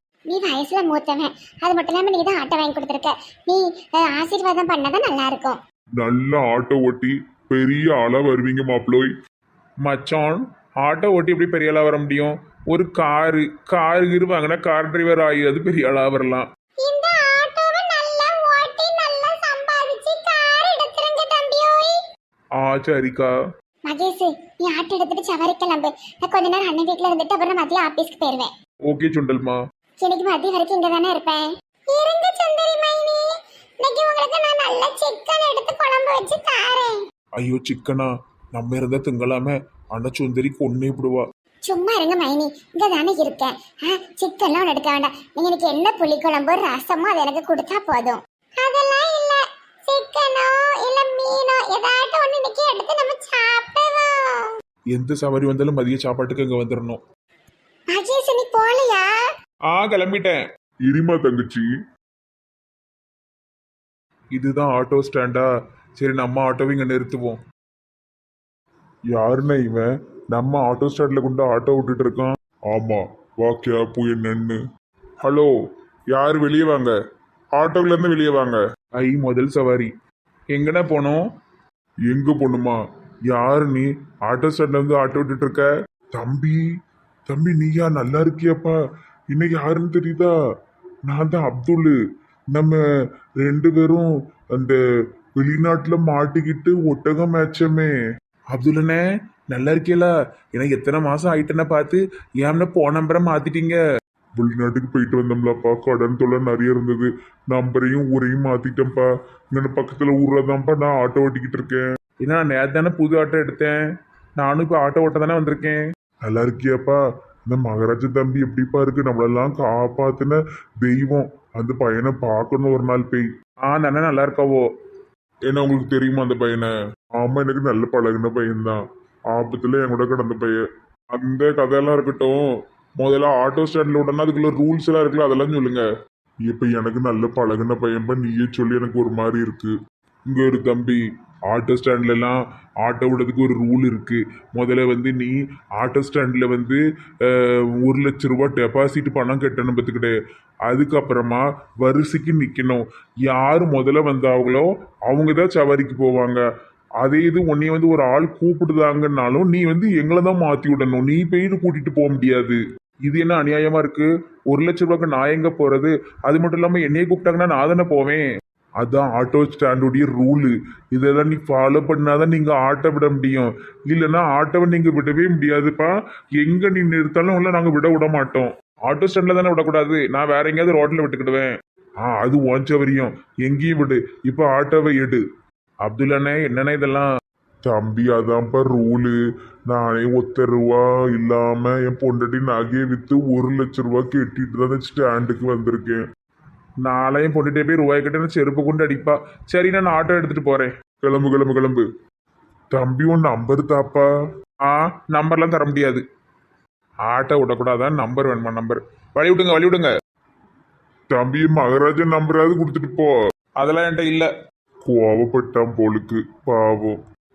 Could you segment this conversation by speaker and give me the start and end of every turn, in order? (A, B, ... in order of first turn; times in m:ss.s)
0:00.3-0:05.6 A
0:06.0-0:09.1 B
0:09.8-0:16.4 B
0:16.8-0:22.0 A
0:22.6-0:23.3 B
0:23.8-0:28.5 A
0:28.9-0:29.6 B
0:30.0-0:33.2 A
0:33.8-0:37.0 A
0:37.4-0:41.2 B
0:41.6-0:54.5 A
0:54.9-0:57.0 B
0:57.9-0:59.1 A
0:59.7-1:01.6 B
1:04.3-1:05.5 B
1:06.0-1:07.4 B
1:09.1-1:14.6 B
1:15.2-1:15.5 B
1:16.1-1:16.9 B
1:17.5-1:19.9 B
1:20.5-1:21.2 B
1:22.1-1:22.8 B
1:23.3-1:26.6 B
1:27.3-1:28.8 B
1:29.3-1:30.3 B
1:31.1-1:31.9 B
1:32.5-1:32.8 B
1:33.4-1:34.8 B
1:35.4-1:37.9 B
1:38.5-1:43.8 B
1:44.4-1:53.8 B
1:54.4-2:04.6 B
2:05.5-2:10.6 B
2:11.1-2:12.4 B
2:13.0-2:15.8 B
2:16.5-2:19.7 B
2:20.3-2:30.1 B
2:30.7-2:36.4 B
2:37.0-2:48.2 B
2:48.8-3:01.5 B
3:02.0-3:05.2 B
3:05.8-3:07.1 B
3:07.6-3:09.2 B
3:09.7-3:16.0 B
3:16.8-3:21.8 B
3:22.7-3:24.1 B
3:24.6-3:26.0 B
3:27.1-3:29.9 B
3:31.1-3:34.3 B
3:34.8-3:37.0 B